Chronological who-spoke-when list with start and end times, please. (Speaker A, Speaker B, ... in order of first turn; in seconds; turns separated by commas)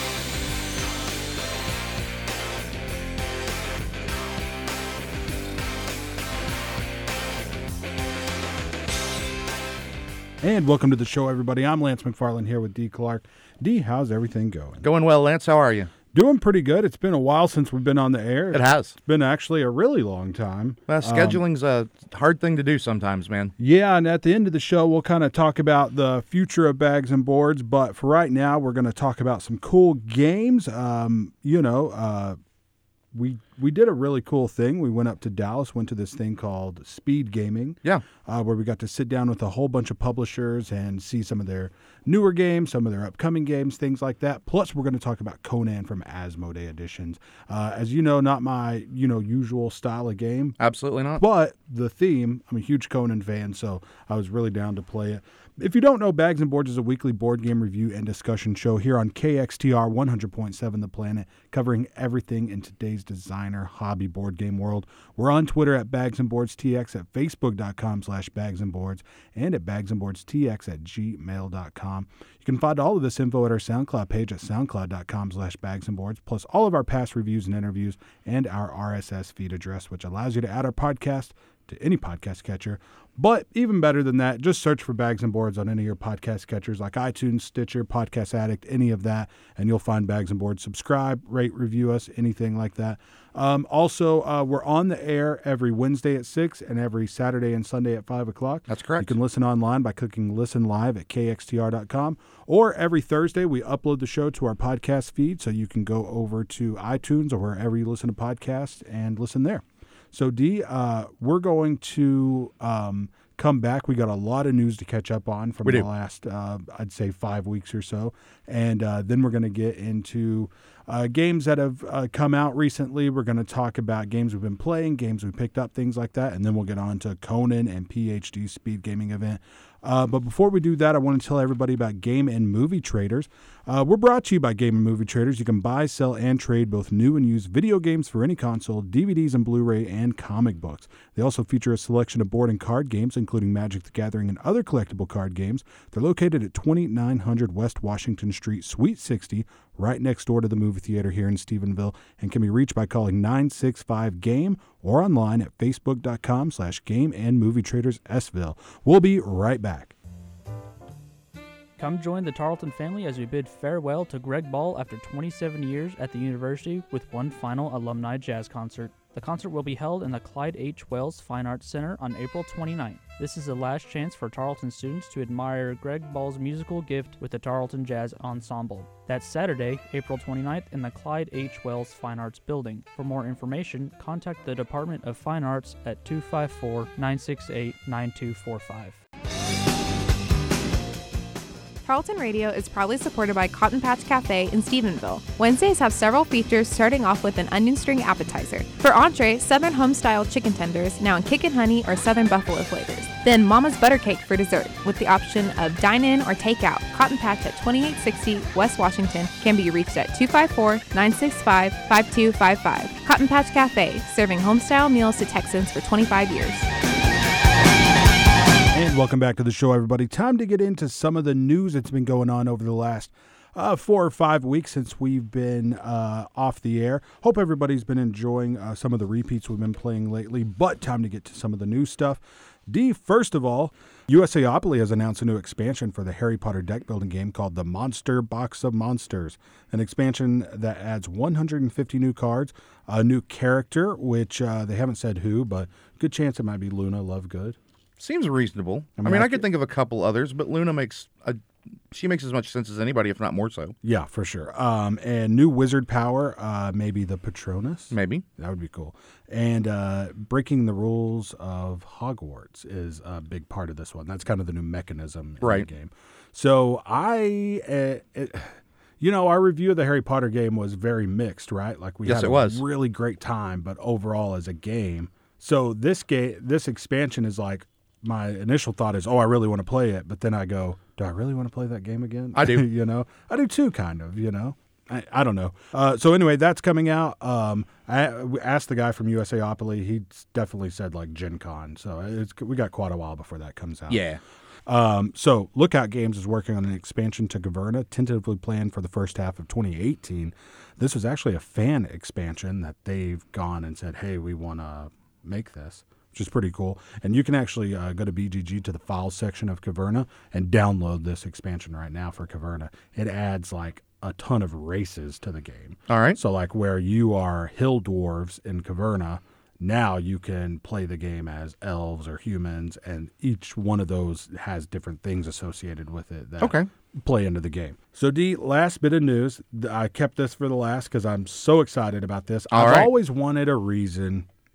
Speaker A: 10.4-14.9, Speaker B: 14.8-15.9, Speaker A: 16.1-21.4, Speaker B: 18.5-18.9, Speaker B: 20.9-23.5, Speaker A: 23.6-32.4, Speaker A: 33.1-50.6, Speaker B: 50.6-51.2, Speaker A: 51.2-159.9, Speaker B: 98.7-99.1, Speaker C: 161.8-189.0, Speaker D: 191.8-216.7, Speaker A: 218.7-247.6, Speaker B: 248.0-251.4, Speaker A: 249.0-249.5, Speaker B: 251.9-253.8, Speaker A: 253.8-294.0, Speaker B: 257.9-258.2, Speaker B: 265.4-265.7, Speaker B: 272.1-272.6, Speaker B: 282.4-282.6, Speaker B: 293.9-294.2, Speaker A: 294.7-334.3, Speaker B: 315.9-316.2, Speaker B: 326.4-326.7, Speaker B: 332.5-332.9